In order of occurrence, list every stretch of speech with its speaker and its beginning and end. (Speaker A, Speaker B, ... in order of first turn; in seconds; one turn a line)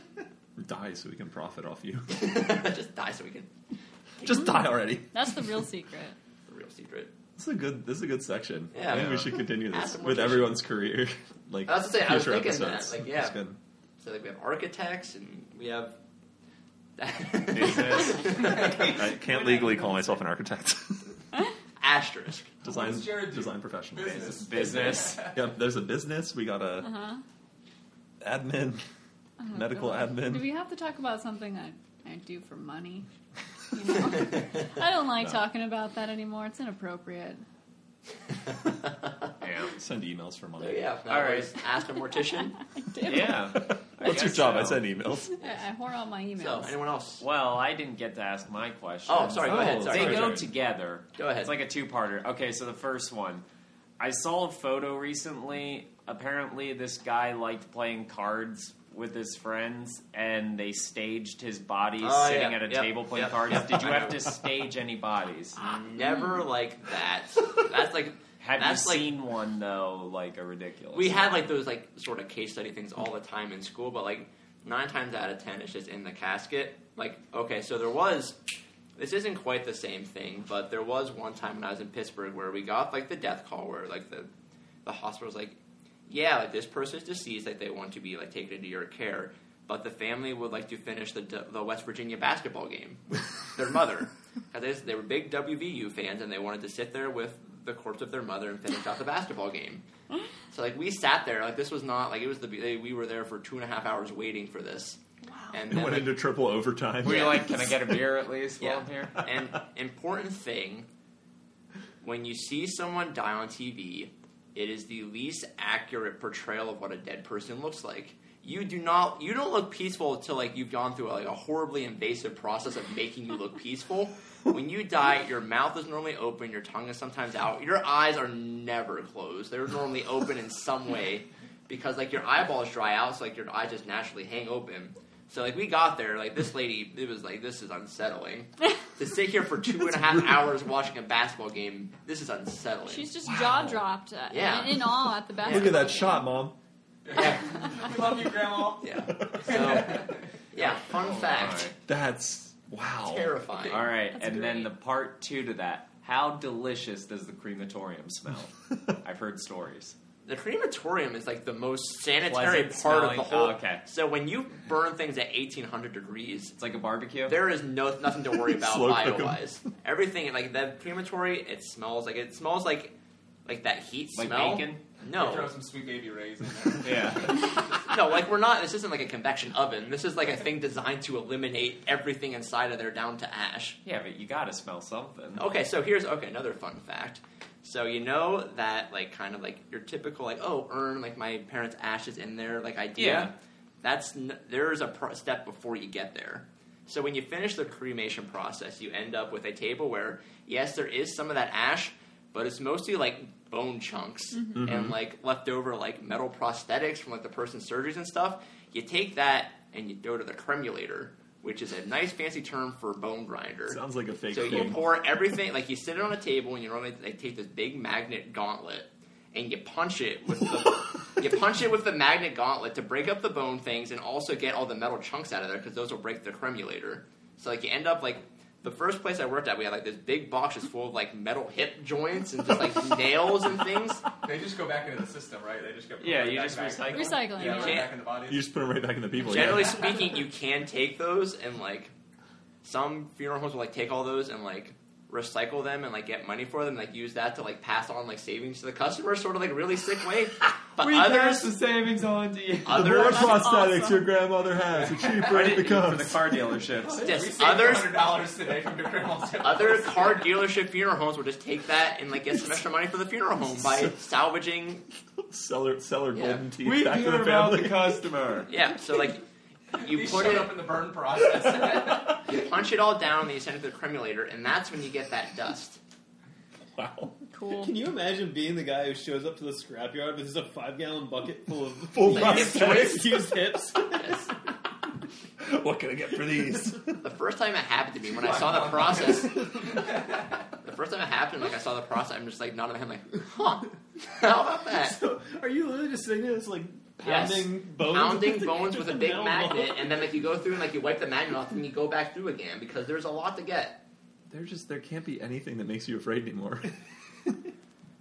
Speaker A: 0.6-2.2
Speaker B: 2.1-3.5
Speaker A: 4.2-5.5
Speaker C: 5.1-6.2
Speaker B: 6.5-7.1
Speaker A: 7.3-13.6
Speaker B: 8.7-10.7
Speaker B: 11.7-13.3
Speaker B: 14.0-15.9
Speaker B: 17.0-19.0
Speaker D: 17.5-18.4
Speaker E: 18.6-20.1
Speaker A: 18.8-21.1
Speaker B: 21.8-22.6
Speaker A: 22.6-26.9
Speaker F: 22.6-25.4
Speaker D: 24.4-25.2
Speaker C: 26.8-27.2
Speaker A: 28.2-28.8
Speaker C: 29.4-33.1
Speaker A: 29.5-30.5
Speaker C: 33.7-37.4
Speaker B: 34.1-34.6
Speaker B: 38.5-39.1
Speaker D: 39.4-39.7
Speaker A: 39.7-40.8
Speaker B: 40.6-42.6
Speaker D: 41.1-41.5
Speaker C: 42.7-43.5
Speaker D: 43.0-44.8
Speaker A: 43.5-45.3
Speaker C: 45.3-46.8
Speaker B: 46.4-47.2
Speaker D: 47.2-53.4
Speaker B: 49.0-50.5
Speaker A: 49.4-50.5
Speaker B: 51.1-51.5
Speaker D: 54.0-65.6
Speaker B: 62.0-64.3
Speaker B: 65.6-69.0
Speaker C: 66.0-66.5
Speaker D: 68.4-71.4
Speaker B: 70.9-78.4
Speaker B: 79.0-84.3
Speaker B: 84.8-99.8
Speaker B: 100.5-105.0
Speaker B: 105.5-106.1
Speaker A: 105.7-108.0
Speaker D: 107.0-109.2
Speaker B: 107.0-107.4
Speaker B: 108.6-110.9
Speaker B: 112.0-143.1
Speaker A: 139.7-140.4
Speaker C: 142.8-146.3
Speaker A: 143.3-143.8
Speaker B: 144.3-145.9
Speaker A: 145.4-146.5
Speaker F: 147.0-150.6
Speaker B: 147.1-147.4
Speaker B: 148.8-151.7
Speaker A: 149.3-149.8
Speaker D: 151.0-151.7
Speaker A: 151.8-153.3
Speaker B: 153.0-153.9
Speaker D: 153.7-159.9
Speaker C: 154.1-154.7
Speaker B: 160.2-166.6
Speaker D: 162.2-163.8
Speaker D: 166.6-167.4
Speaker B: 167.3-175.5
Speaker A: 168.3-169.4
Speaker D: 174.1-174.8
Speaker F: 175.1-177.9
Speaker D: 176.8-177.4
Speaker B: 177.8-183.8
Speaker D: 183.8-185.4
Speaker B: 185.3-234.1
Speaker D: 192.9-193.3
Speaker A: 204.6-204.9
Speaker A: 213.7-214.9
Speaker F: 234.2-238.4
Speaker D: 236.0-237.8
Speaker C: 236.9-237.9
Speaker B: 237.5-237.9
Speaker A: 238.3-239.9
Speaker B: 239.2-241.9
Speaker B: 242.6-251.5
Speaker D: 250.8-253.0
Speaker B: 252.6-253.5
Speaker A: 252.7-256.4
Speaker C: 252.9-254.1
Speaker F: 254.9-255.2
Speaker D: 255.2-257.1
Speaker F: 256.8-260.3
Speaker B: 257.0-258.1
Speaker B: 259.4-264.8
Speaker A: 263.6-263.9
Speaker A: 265.2-268.0
Speaker B: 266.1-266.4
Speaker D: 266.6-268.5
Speaker B: 268.5-269.2
Speaker F: 269.7-272.2
Speaker B: 269.8-270.6
Speaker B: 272.2-275.8
Speaker A: 276.7-277.1
Speaker C: 277.3-277.8
Speaker E: 277.5-284.2
Speaker A: 281.9-283.4
Speaker B: 282.1-283.1
Speaker B: 283.9-284.3
Speaker A: 285.4-287.0
Speaker B: 287.0-289.4
Speaker F: 288.2-290.4
Speaker B: 290.6-295.0
Speaker E: 294.8-300.0
Speaker B: 297.0-303.8
Speaker A: 304.3-307.3